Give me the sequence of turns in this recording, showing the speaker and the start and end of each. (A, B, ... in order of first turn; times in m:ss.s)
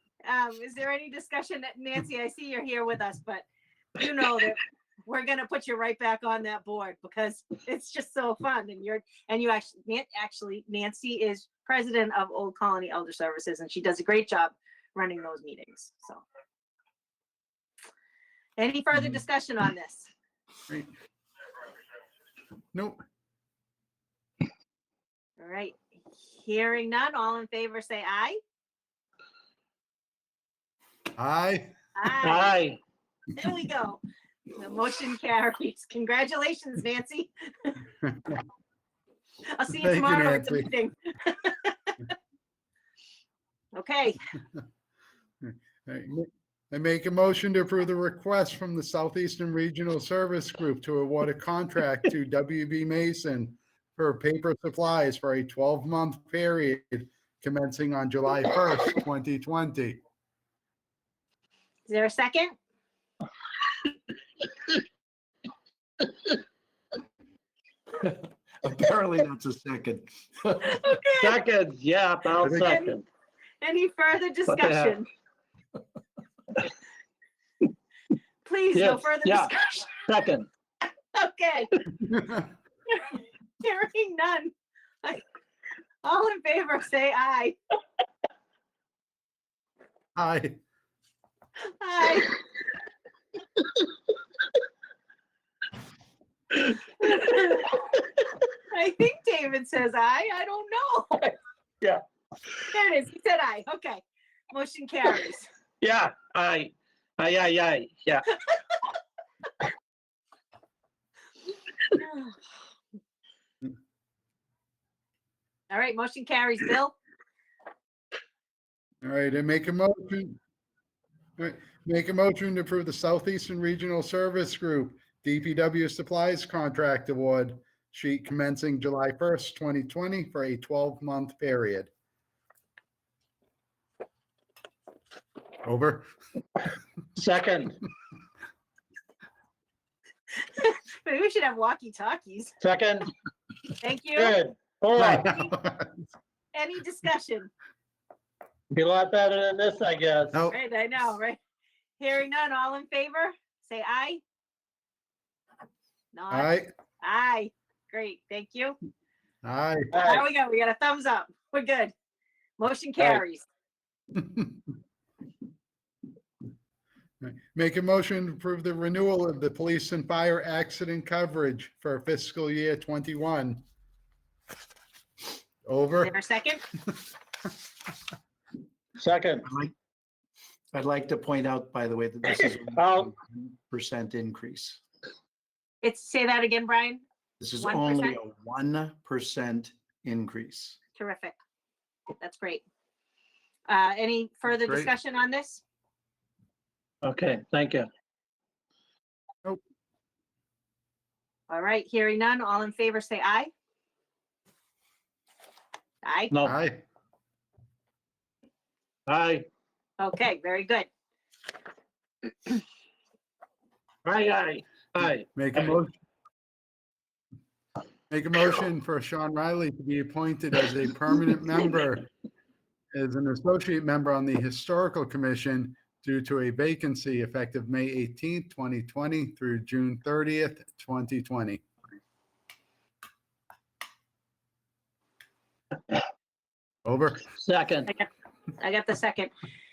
0:00.2-0:16.2 A
0:18.6-0:20.1 A
0:22.7-0:23.0 B
0:25.4-0:25.8 A
0:26.3-0:28.4 A
0:31.2-0:31.7 B
0:32.0-0:32.6 A
0:32.2-0:32.8 C
0:33.3-0:34.0 A
0:34.5-0:37.8 A
0:38.0-0:38.4 B
0:39.5-0:41.9 A
0:39.8-0:40.7 B
0:43.8-0:44.2 A
0:45.4-1:00.0 B
1:01.9-1:02.6 A
1:08.0-1:10.1 D
1:10.5-1:11.4 A
1:11.2-1:13.0 C
1:12.4-1:12.7 B
1:12.5-1:13.0 A
1:13.6-1:15.1 A
1:14.5-1:15.0 C
1:18.4-1:20.0 A
1:18.7-1:20.5 C
1:21.1-1:21.8 A
1:22.0-1:22.4 B
1:22.9-1:24.5 A
1:26.0-1:27.6 A
1:30.2-1:30.6 B
1:31.7-1:32.4 A
1:37.0-1:37.7 A
1:38.7-1:41.2 A
1:41.2-1:42.0 C
1:42.7-1:45.5 A
1:45.8-1:48.4 C
1:51.9-1:52.3 A
1:55.7-1:57.0 A
1:59.0-2:00.4 B
2:01.4-2:11.9 B
2:15.6-2:16.1 B
2:17.2-2:17.8 C
2:20.5-2:22.5 A
2:22.6-2:23.1 C
2:23.7-2:24.4 A
2:24.2-2:25.4 C
2:25.0-2:25.9 B
2:26.5-2:27.5 A
2:28.7-2:30.4 C
2:30.5-2:31.4 A
2:32.0-2:34.2 A
2:36.1-2:38.8 A
2:36.3-2:36.7 B
2:39.4-2:39.9 B
2:39.9-2:40.2 C
2:40.0-2:41.9 A
2:42.6-2:43.5 A
2:44.2-2:44.6 B
2:47.2-2:53.6 B
2:55.7-2:56.1 B
2:56.0-2:56.6 A
2:59.0-2:59.5 C
2:59.5-2:59.7 D
3:00.7-3:04.8 D
3:02.7-3:03.1 C
3:05.8-3:07.0 A
3:07.4-3:10.8 D
3:07.6-3:08.2 A
3:11.0-3:11.4 A
3:12.2-3:12.6 A
3:13.7-3:15.6 A
3:14.5-3:14.9 B
3:17.0-3:17.9 C
3:21.5-3:23.5 A
3:26.0-3:26.3 A
3:26.4-3:26.8 B
3:29.1-3:29.5 C
3:30.0-3:30.9 A
3:34.0-3:35.3 C
3:35.4-3:36.0 B
3:38.1-3:42.1 B
3:42.9-3:51.6 B
3:56.9-3:57.2 B
3:57.4-3:57.9 C
3:57.9-3:59.3 A